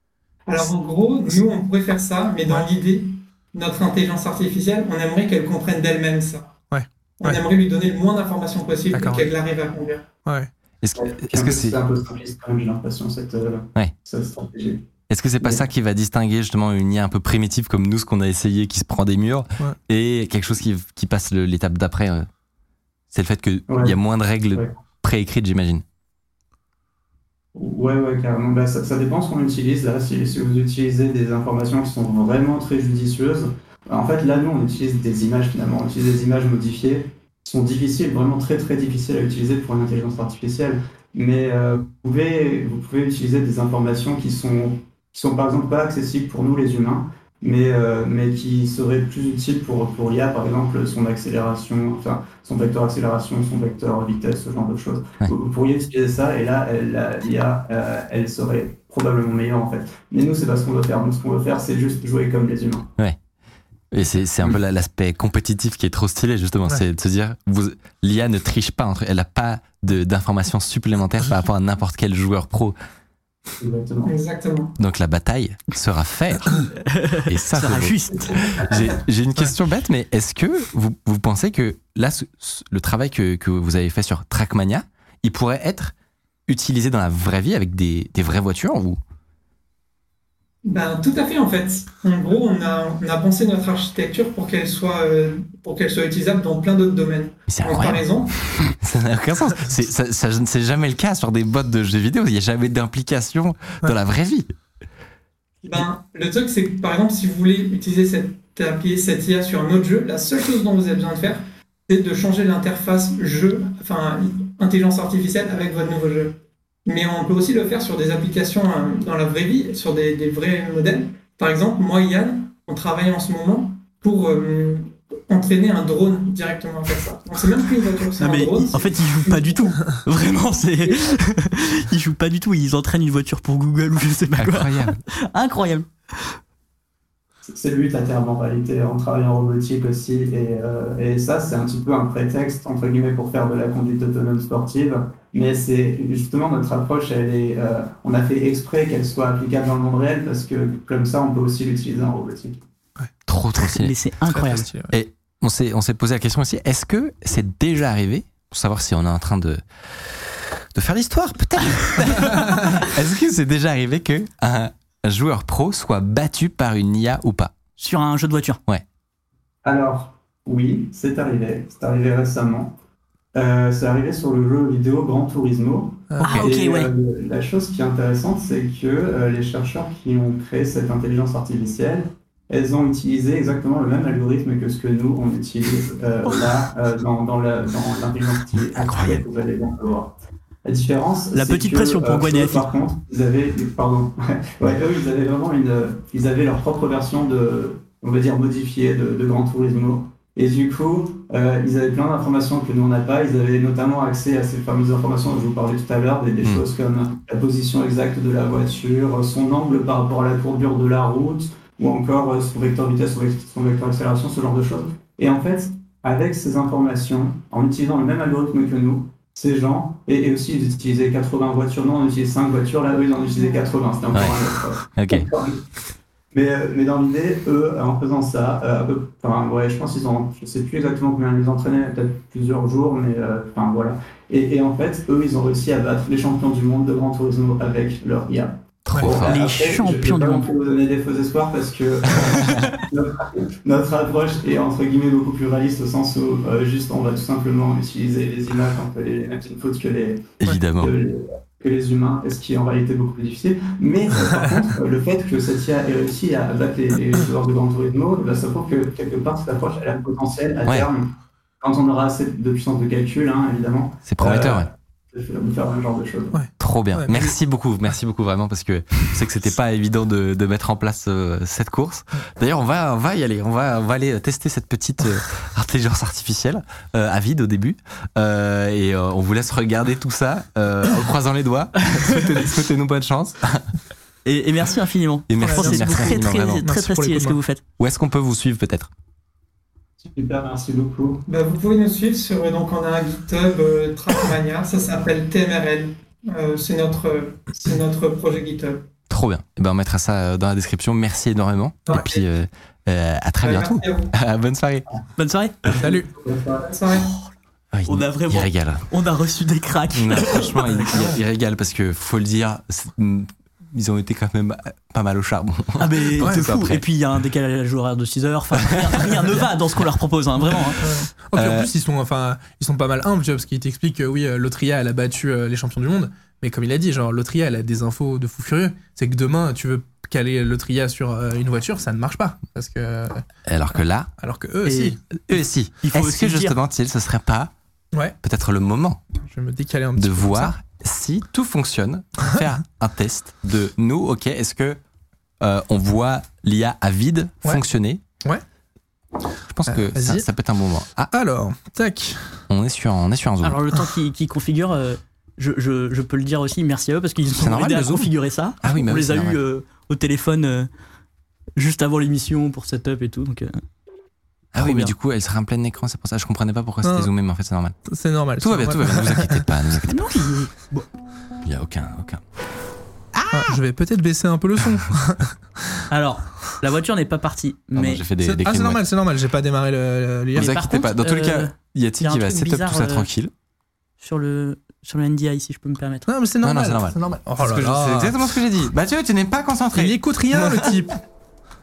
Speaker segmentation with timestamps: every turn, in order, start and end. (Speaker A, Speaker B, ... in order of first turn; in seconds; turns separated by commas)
Speaker A: 0.5-6.5, Speaker B: 6.7-7.4, Speaker A: 7.2-10.1, Speaker B: 8.9-9.3, Speaker B: 10.2-10.5, Speaker C: 10.8-11.8, Speaker D: 11.0-14.8, Speaker C: 15.1-22.3, Speaker C: 23.1-25.8, Speaker D: 23.7-23.9, Speaker D: 27.5-62.9, Speaker C: 63.9-72.8, Speaker D: 73.6-74.1, Speaker A: 74.0-74.7, Speaker C: 74.8-76.6, Speaker E: 76.8-78.3, Speaker C: 77.2-85.9, Speaker C: 86.5-89.0, Speaker A: 90.6-98.3, Speaker C: 97.5-98.1, Speaker C: 98.7-104.5, Speaker A: 105.6-129.7, Speaker E: 128.2-135.9, Speaker C: 134.4-135.0, Speaker D: 137.4-152.6, Speaker C: 153.3-153.9, Speaker E: 153.8-154.7, Speaker B: 154.3-154.9, Speaker C: 154.9-167.5, Speaker E: 167.8-168.6, Speaker D: 169.6-172.7, Speaker D: 173.3-190.1, Speaker B: 176.1-176.5, Speaker E: 176.2-176.9, Speaker C: 188.8-189.1, Speaker D: 190.6-225.6, Speaker E: 191.3-192.7, Speaker A: 223.3-223.6, Speaker C: 224.1-224.4, Speaker C: 224.9-225.3, Speaker D: 226.3-261.1, Speaker C: 238.8-239.4, Speaker E: 239.2-240.5, Speaker C: 242.2-242.7, Speaker C: 250.4-250.9, Speaker D: 261.6-266.4, Speaker C: 264.1-264.7, Speaker B: 266.3-267.3, Speaker C: 266.6-283.6, Speaker E: 284.2-287.6, Speaker C: 285.3-286.6, Speaker B: 285.4-287.4, Speaker C: 287.8-288.9, Speaker D: 290.0-291.2, Speaker A: 291.3-298.8, Speaker C: 299.1-304.9, Speaker A: 301.9-302.2, Speaker A: 303.4-304.1, Speaker E: 305.2-305.7, Speaker B: 305.8-306.1, Speaker D: 305.8-306.6, Speaker A: 306.6-307.1, Speaker E: 306.9-307.3, Speaker C: 307.7-308.9, Speaker E: 307.9-310.8, Speaker C: 309.9-316.8, Speaker E: 315.8-320.9, Speaker B: 320.8-333.2, Speaker C: 321.4-321.7, Speaker C: 333.4-334.1, Speaker B: 334.2-335.0, Speaker C: 335.3-337.5, Speaker E: 335.8-336.6, Speaker C: 338.2-339.0, Speaker B: 339.2-340.5, Speaker C: 340.0-344.8, Speaker C: 345.4-348.0, Speaker C: 349.5-351.1, Speaker B: 349.7-350.2, Speaker B: 351.0-352.4, Speaker C: 352.5-353.6, Speaker E: 353.4-360.7, Speaker C: 357.4-359.4, Speaker E: 361.6-363.6, Speaker C: 364.5-367.8, Speaker E: 364.6-364.9, Speaker B: 366.8-367.1, Speaker B: 367.9-369.4, Speaker C: 368.4-370.1, Speaker E: 369.9-370.9, Speaker C: 371.4-372.2, Speaker C: 373.1-373.6, Speaker B: 373.3-375.3, Speaker E: 375.9-378.0, Speaker C: 377.7-378.8, Speaker B: 378.2-380.5, Speaker C: 380.3-383.3, Speaker E: 380.3-383.1, Speaker E: 384.0-386.1, Speaker B: 386.1-388.1, Speaker C: 386.4-390.7, Speaker B: 389.7-391.0